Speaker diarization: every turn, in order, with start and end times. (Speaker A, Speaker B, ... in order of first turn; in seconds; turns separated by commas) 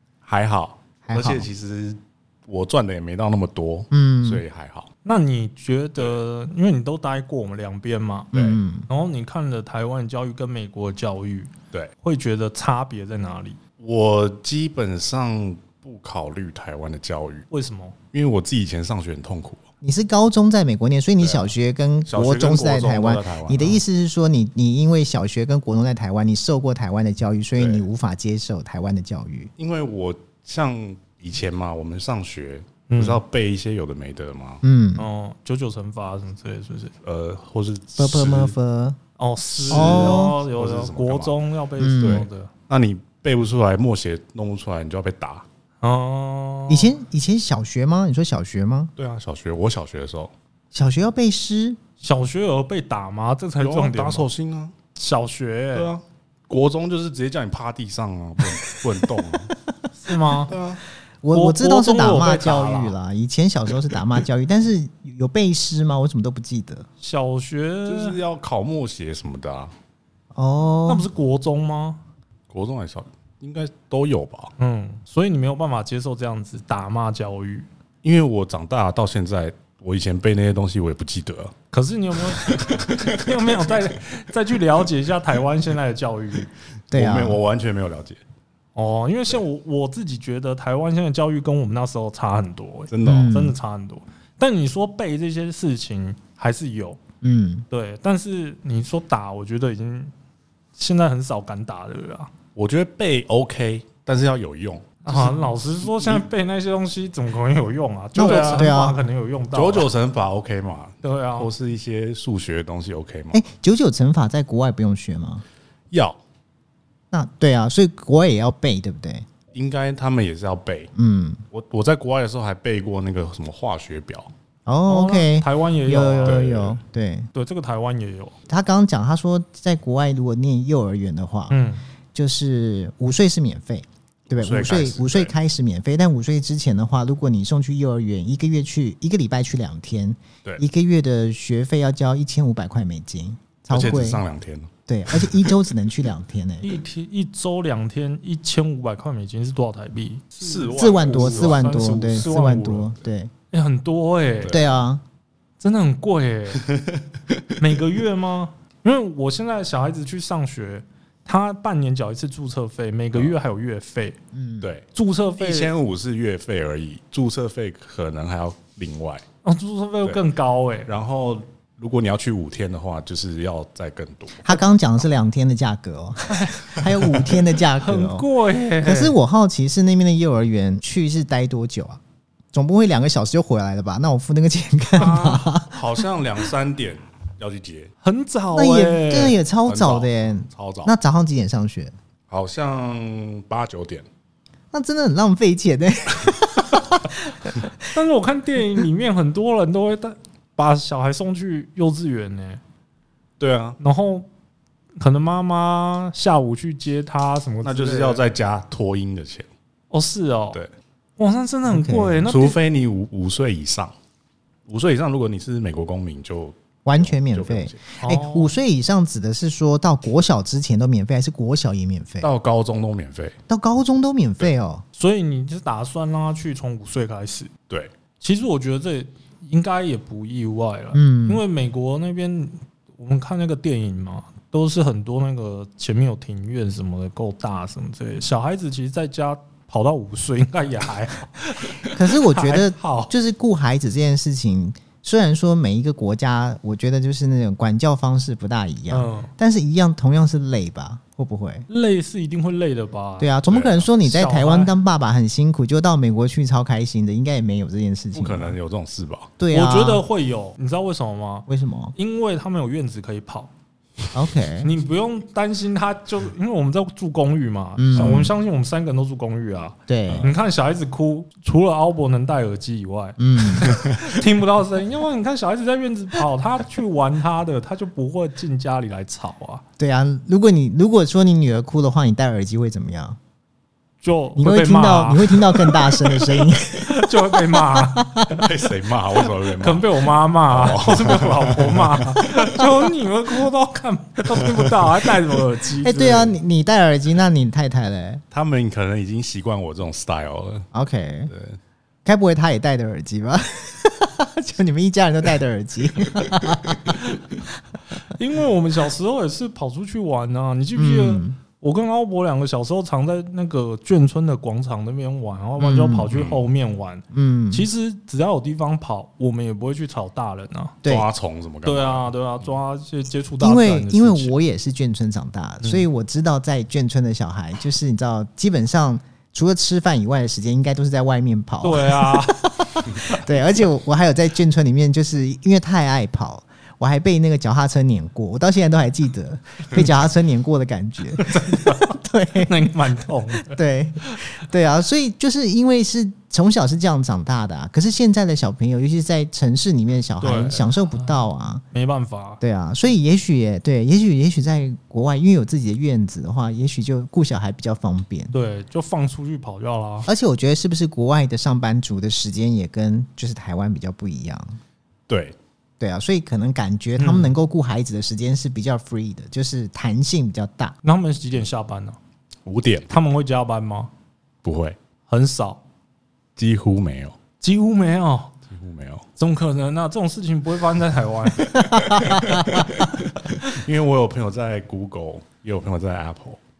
Speaker A: 0.2-4.9, Speaker B: 1.1-1.5, Speaker B: 3.9-4.4, Speaker C: 5.0-8.3, Speaker B: 8.3-8.9, Speaker C: 8.9-13.6, Speaker A: 13.8-17.5, Speaker C: 17.5-17.9, Speaker A: 18.1-19.7, Speaker B: 19.8-29.5, Speaker A: 21.2-21.5, Speaker A: 22.1-23.7, Speaker A: 27.6-27.9, Speaker A: 29.6-34.6, Speaker C: 32.9-33.2, Speaker B: 34.6-35.1, Speaker C: 35.0-36.9, Speaker A: 37.0-38.5, Speaker B: 38.0-39.0, Speaker C: 39.2-42.5, Speaker A: 39.5-41.4, Speaker B: 39.7-40.4, Speaker B: 41.8-42.3, Speaker A: 42.0-45.5, Speaker C: 45.8-46.9, Speaker B: 46.7-48.9, Speaker A: 49.0-50.3, Speaker B: 50.7-51.8, Speaker C: 52.0-54.3, Speaker A: 53.6-54.7, Speaker C: 55.0-55.9, Speaker A: 55.7-59.5, Speaker C: 60.0-60.5, Speaker A: 60.5-60.8, Speaker B: 61.2-66.9, Speaker C: 61.3-62.9, Speaker C: 67.0-68.2, Speaker A: 67.9-69.7, Speaker B: 70.3-71.1, Speaker C: 70.9-72.0, Speaker A: 72.5-74.5, Speaker C: 74.6-77.7, Speaker A: 78.0-81.5, Speaker C: 81.7-86.5, Speaker A: 82.5-83.1, Speaker B: 86.9-87.4, Speaker A: 86.9-88.2, Speaker C: 88.8-97.0, Speaker A: 92.9-93.3, Speaker B: 93.0-93.5, Speaker B: 97.2-97.7, Speaker C: 97.7-100.1, Speaker C: 100.8-102.3, Speaker A: 102.5-106.2, Speaker C: 105.1-109.9, Speaker B: 108.2-109.0, Speaker A: 108.2-108.8, Speaker A: 109.5-113.4, Speaker C: 111.0-111.5, Speaker B: 113.3-115.4, Speaker A: 115.9-116.2, Speaker B: 117.1-119.3, Speaker A: 119.5-120.9, Speaker B: 121.0-121.4, Speaker A: 121.5-124.3, Speaker B: 124.7-127.3, Speaker C: 124.9-126.5, Speaker A: 126.2-126.8, Speaker C: 127.3-128.4, Speaker B: 128.5-131.6, Speaker C: 131.5-131.8, Speaker B: 132.1-144.2, Speaker A: 134.4-135.3, Speaker A: 143.7-145.3, Speaker B: 144.9-146.7, Speaker C: 146.6-152.9, Speaker A: 150.4-152.3, Speaker B: 150.7-153.3, Speaker C: 153.5-154.6, Speaker A: 154.4-154.7, Speaker B: 154.5-155.0, Speaker C: 155.6-156.6, Speaker A: 156.6-157.0, Speaker C: 157.6-164.2, Speaker B: 164.3-164.7, Speaker A: 164.6-164.9, Speaker C: 164.9-165.7, Speaker A: 165.4-169.2, Speaker C: 169.4-170.9, Speaker A: 170.9-174.5, Speaker B: 174.4-178.3, Speaker C: 176.3-177.2, Speaker C: 177.8-179.2, Speaker B: 178.8-182.0, Speaker B: 182.5-185.8, Speaker A: 185.0-187.9, Speaker C: 188.0-189.4, Speaker B: 188.6-191.9, Speaker A: 189.7-190.9, Speaker A: 192.3-194.1, Speaker B: 194.7-197.6, Speaker C: 197.9-202.6, Speaker A: 203.4-203.8, Speaker C: 203.8-204.3, Speaker C: 205.0-208.2, Speaker A: 207.6-209.5, Speaker C: 209.9-210.6, Speaker C: 211.2-212.6, Speaker B: 211.7-212.2, Speaker A: 212.3-213.9, Speaker A: 214.7-217.8, Speaker B: 216.9-222.3, Speaker C: 218.0-218.5, Speaker A: 222.2-223.4, Speaker B: 223.5-224.8, Speaker C: 225.0-227.5, Speaker C: 228.2-243.1, Speaker B: 230.9-231.4, Speaker B: 241.8-251.7, Speaker C: 248.9-249.3, Speaker C: 251.7-253.3, Speaker B: 253.2-258.6, Speaker A: 253.5-253.9, Speaker C: 254.0-254.7, Speaker A: 258.1-259.3, Speaker B: 259.4-260.0, Speaker C: 259.5-263.5, Speaker B: 261.5-261.9, Speaker B: 264.1-264.7, Speaker C: 264.6-279.6, Speaker B: 267.8-268.3, Speaker A: 268.0-268.3, Speaker B: 269.9-270.3, Speaker B: 273.2-273.7, Speaker B: 279.8-283.2, Speaker C: 284.0-286.1, Speaker B: 284.4-288.4, Speaker C: 286.9-288.2, Speaker A: 288.3-292.0, Speaker C: 289.6-296.4, Speaker B: 295.8-298.2, Speaker A: 298.3-300.7, Speaker B: 300.7-301.3, Speaker A: 301.3-301.6, Speaker B: 302.1-307.0, Speaker C: 308.0-320.8, Speaker B: 310.8-311.4, Speaker B: 315.6-316.1, Speaker A: 316.1-316.4, Speaker B: 317.1-317.7, Speaker A: 320.9-322.5, Speaker C: 321.6-324.4, Speaker B: 323.4-342.7, Speaker C: 325.6-325.9, Speaker C: 331.6-333.2, Speaker C: 341.2-343.6, Speaker B: 343.4-351.6, Speaker C: 350.2-351.1, Speaker C: 351.7-352.4, Speaker B: 352.4-358.3, Speaker C: 358.3-360.1, Speaker B: 360.1-364.6, Speaker A: 365.1-365.4, Speaker B: 365.8-370.8, Speaker C: 367.0-367.4, Speaker C: 370.8-372.0, Speaker A: 372.5-372.9, Speaker C: 372.9-373.9, Speaker A: 374.4-374.8, Speaker C: 375.1-375.6, Speaker A: 376.4-377.1, Speaker C: 377.4-378.3, Speaker A: 378.5-379.1, Speaker C: 379.2-382.6, Speaker B: 381.8-382.6, Speaker A: 383.4-386.4